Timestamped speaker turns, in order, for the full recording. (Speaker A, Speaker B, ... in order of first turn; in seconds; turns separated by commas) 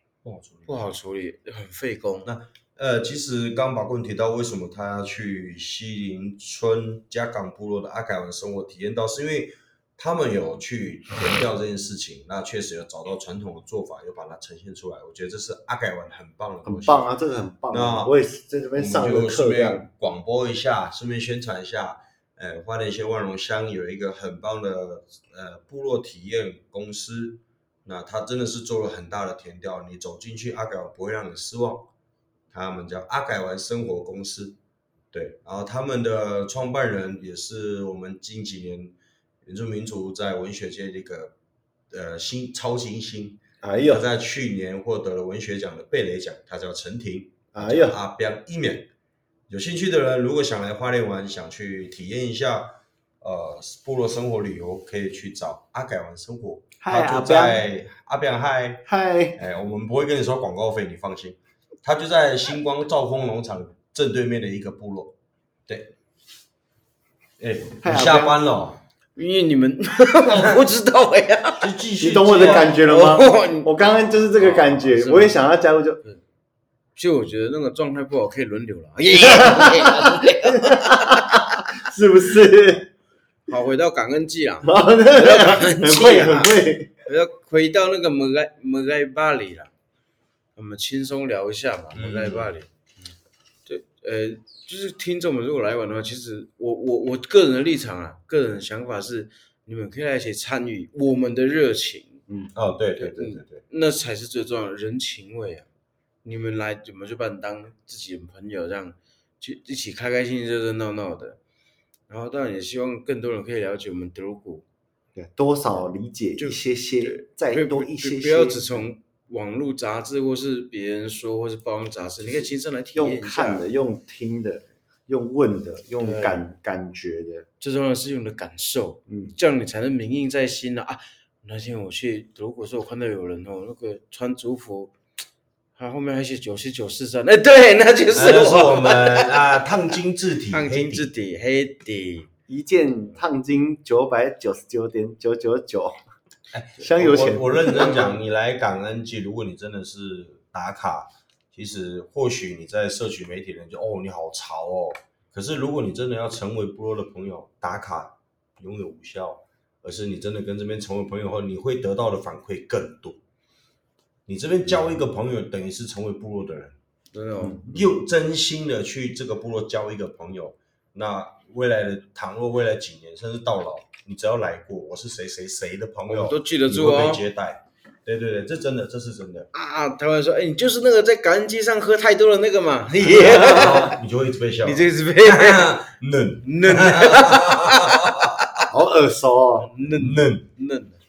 Speaker A: 0.2-0.7, Speaker B: 0.7-2.3, Speaker A: 2.2-17.1, Speaker C: 16.6-19.9, Speaker A: 17.7-18.1, Speaker A: 18.8-31.9, Speaker A: 32.5-34.6, Speaker A: 35.1-41.3, Speaker A: 41.9-48.9, Speaker C: 43.6-44.0, Speaker C: 47.5-48.0, Speaker A: 49.5-65.2, Speaker C: 56.8-57.6, Speaker C: 58.9-59.4, Speaker A: 65.7-66.0, Speaker A: 67.4-68.8, Speaker C: 67.8-68.4, Speaker B: 69.2-71.8, Speaker A: 70.3-70.6, Speaker A: 71.6-72.8, Speaker C: 72.0-76.0, Speaker B: 72.3-75.4, Speaker B: 77.0-81.5, Speaker C: 79.1-82.9, Speaker B: 83.5-89.7, Speaker C: 84.6-86.9, Speaker B: 90.6-92.7, Speaker A: 91.9-92.5, Speaker B: 93.7-102.2, Speaker A: 102.5-103.6, Speaker B: 103.0-105.7, Speaker B: 106.2-111.4, Speaker B: 112.1-114.6, Speaker C: 115.1-118.9, Speaker B: 116.4-123.7, Speaker C: 122.2-127.5, Speaker B: 126.0-126.4, Speaker B: 127.6-134.9, Speaker C: 129.1-129.3, Speaker B: 135.8-139.6, Speaker A: 138.1-141.1, Speaker B: 140.5-142.3, Speaker C: 142.5-146.0, Speaker A: 146.5-163.2, Speaker C: 146.8-148.0, Speaker B: 147.8-148.1, Speaker A: 164.3-166.8, Speaker B: 167.1-167.6, Speaker C: 167.4-167.8, Speaker A: 167.7-179.5, Speaker B: 176.1-177.2, Speaker B: 179.5-184.0, Speaker A: 183.0-188.6, Speaker C: 183.3-183.8, Speaker B: 184.6-185.8, Speaker B: 186.4-188.6, Speaker C: 188.7-189.7, Speaker B: 189.6-191.0, Speaker A: 190.0-190.5